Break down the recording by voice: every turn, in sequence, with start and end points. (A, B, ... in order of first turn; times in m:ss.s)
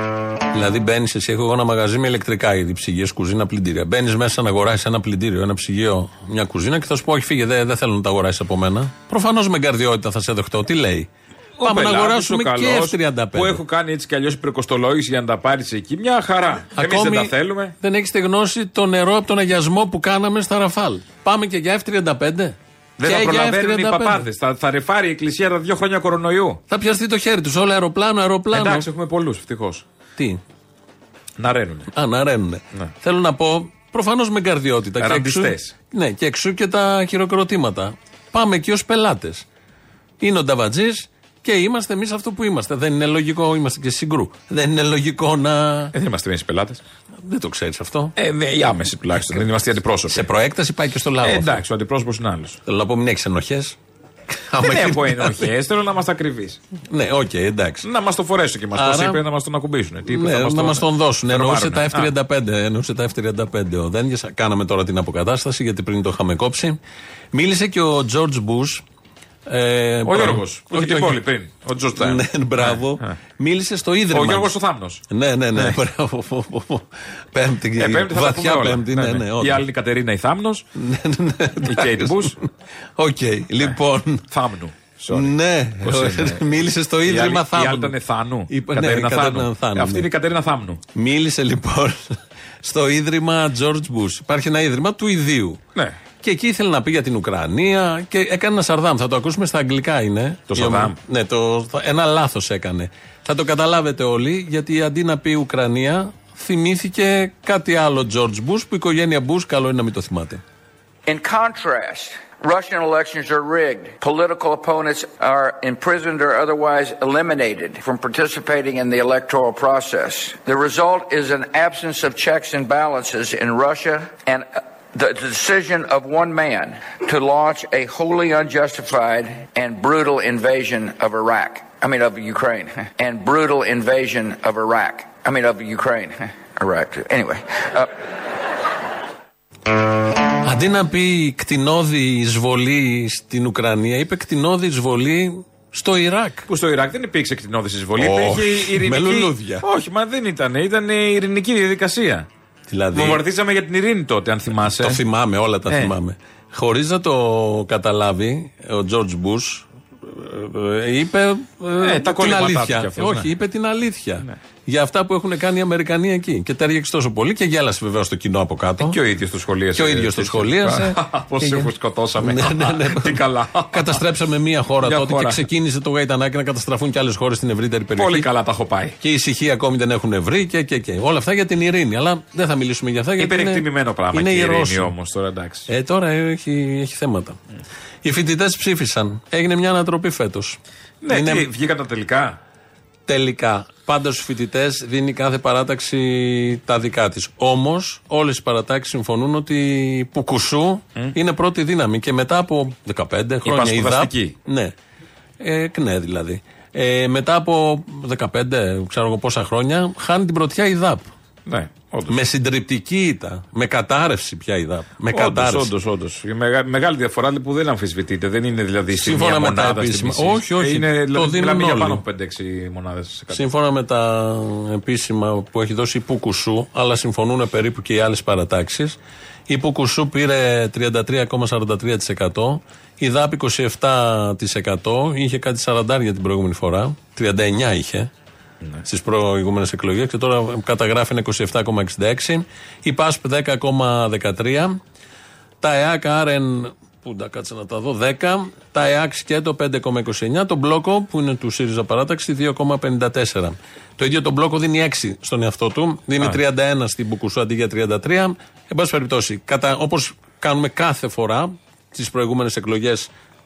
0:00.5-0:11.1 A
0:11.6-0:17.8 B
0:11.6-0:13.6 A
0:16.8-0:24.2 A
0:23.0-0:26.6 B
0:26.7-0:28.9 A
0:28.5-0:29.8 B
0:31.4-0:31.9 B
0:31.9-0:39.4 A
0:35.0-0:35.7 B
0:40.2-0:45.9 A
0:45.9-0:46.8 B
0:47.2-0:48.2 A
0:48.2-0:50.3 B
0:50.1-0:51.6 A
0:51.2-0:52.6 B
0:52.7-0:53.8 A
0:54.3-0:55.5 A
0:54.6-0:56.6 B
0:56.9-0:57.9 A
0:57.8-1:02.1 B
0:58.8-0:59.2 A
1:00.1-1:06.8 A
1:07.3-1:08.8 A
1:09.5-1:11.2 A
1:10.0-1:13.2 B
1:12.0-1:14.6 A
1:14.1-1:15.0 B
1:15.1-1:19.6 A
1:17.8-1:20.6 B
1:20.8-1:22.4 A
1:21.6-1:22.4 B
1:23.0-1:24.3 A
1:24.3-1:30.8 B
1:25.1-1:28.0 A
1:28.5-1:30.1 A
1:30.9-1:35.6 A
1:36.2-1:50.4 A
1:40.5-1:41.0 B
1:51.1-2:17.9 C
2:20.4-2:26.5 A
2:26.5-2:32.3 B
2:28.0-2:29.6 A
2:32.7-2:33.2 A
2:32.9-2:35.0 B
2:34.6-2:49.0 A
2:35.7-2:35.9 B
2:41.8-2:43.3 B
2:48.8-2:54.0 B
2:49.8-2:58.3 A
2:54.8-2:55.4 B
2:58.0-2:59.0 B
2:59.0-3:04.9 A
3:03.2-3:05.7 B
3:05.7-3:07.4 A
3:08.0-3:10.6 A
3:11.0-3:12.4 B
3:11.1-3:11.5 A
3:13.1-3:24.7 A
3:23.4-3:24.4 B
3:25.4-3:31.1 A
3:31.5-3:32.2 B
3:32.1-3:35.7 A
3:35.1-3:43.5 B
3:38.9-3:42.0 A
3:43.3-3:49.0 A
3:49.5-3:58.1 A
3:58.8-4:04.8 A
4:05.6-4:23.1 A